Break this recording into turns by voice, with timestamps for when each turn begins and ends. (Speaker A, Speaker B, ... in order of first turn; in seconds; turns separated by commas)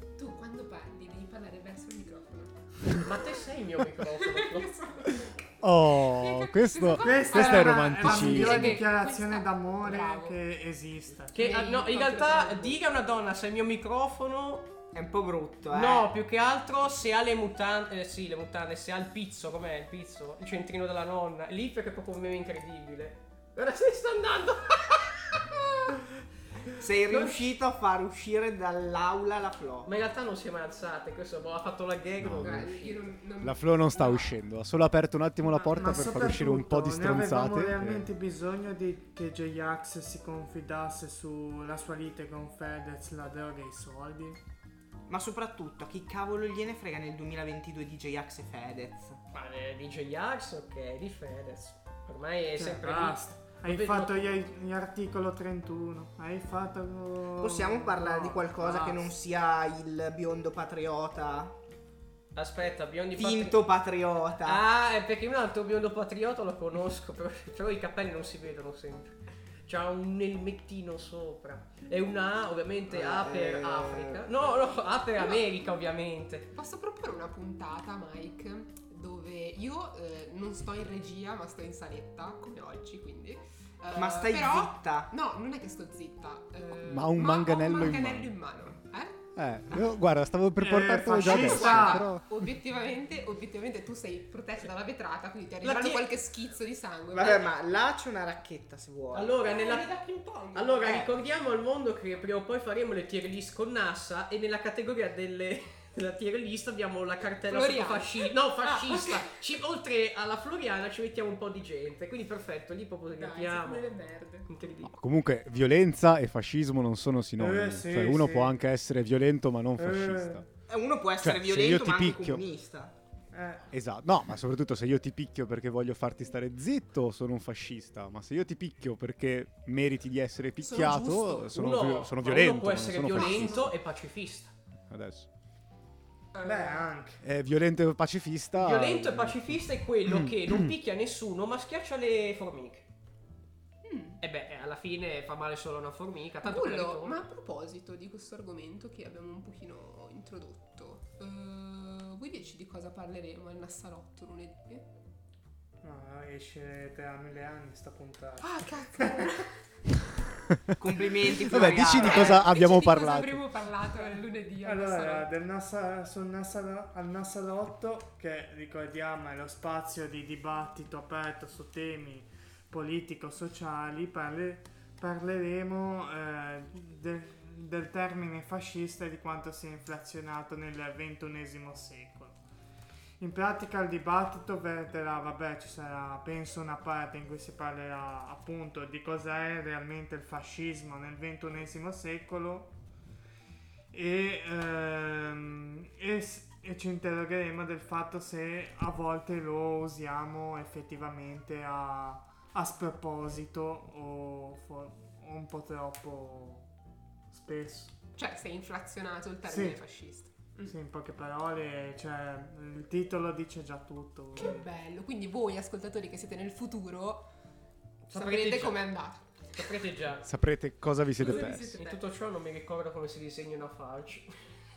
Speaker A: 0.2-3.1, Speaker B: 2.9-4.7, Speaker A: 4.2-10.4, Speaker C: 5.6-8.8, Speaker D: 7.0-11.5, Speaker B: 11.3-14.7, Speaker A: 11.3-12.8, Speaker E: 14.9-16.1, Speaker B: 15.7-26.0, Speaker E: 26.8-29.9, Speaker B: 27.1-27.5, Speaker B: 29.8-33.0, Speaker C: 32.2-32.7, Speaker A: 32.4-34.3, Speaker C: 33.4-38.0, Speaker D: 35.7-44.4, Speaker E: 45.1-49.2, Speaker B: 49.3-54.4, Speaker D: 52.5-58.5, Speaker E: 57.4-61.6, Speaker B: 58.6-59.1, Speaker B: 62.3-63.6, Speaker E: 63.1-64.6, Speaker B: 64.4-76.5, Speaker E: 72.9-74.2, Speaker A: 75.2-75.4, Speaker A: 76.5-89.2, Speaker E: 83.9-85.1, Speaker C: 86.8-88.3, Speaker C: 89.3-92.2, Speaker D: 90.6-92.1, Speaker A: 91.2-97.5, Speaker B: 95.6-96.0, Speaker E: 97.1-99.5, Speaker B: 99.1-99.9, Speaker A: 99.4-101.0, Speaker B: 100.5-113.9, Speaker E: 100.8-101.1, Speaker A: 107.5-109.2, Speaker A: 113.2-114.5, Speaker B: 114.5-114.9, Speaker C: 114.8-120.5, Speaker D: 117.4-118.5, Speaker D: 119.8-120.4, Speaker E: 120.7-122.9, Speaker C: 121.2-122.4, Speaker D: 123.3-123.7, Speaker C: 123.7-133.7, Speaker A: 130.6-131.5, Speaker B: 130.7-134.5, Speaker A: 133.2-133.6, Speaker C: 134.9-135.3, Speaker A: 136.3-136.8, Speaker D: 136.4-137.2, Speaker C: 137.2-140.7, Speaker B: 138.6-142.8, Speaker A: 143.8-144.2, Speaker B: 144.2-147.2, Speaker A: 146.4-154.8, Speaker D: 155.8-159.4, Speaker A: 158.4-159.6, Speaker E: 160.8-162.5, Speaker C: 161.3-163.4, Speaker A: 161.8-165.3, Speaker D: 164.6-182.4, Speaker D: 183.2-192.7, Speaker D: 193.9-206.7, Speaker D: 207.3-207.9, Speaker A: 208.2-210.7, Speaker D: 209.4-209.8, Speaker D: 210.6-214.6, Speaker A: 214.3-217.3, Speaker B: 218.1-218.9, Speaker A: 218.1-219.2, Speaker B: 219.5-220.3, Speaker C: 220.2-221.7, Speaker A: 221.2-222.0, Speaker B: 221.2-224.4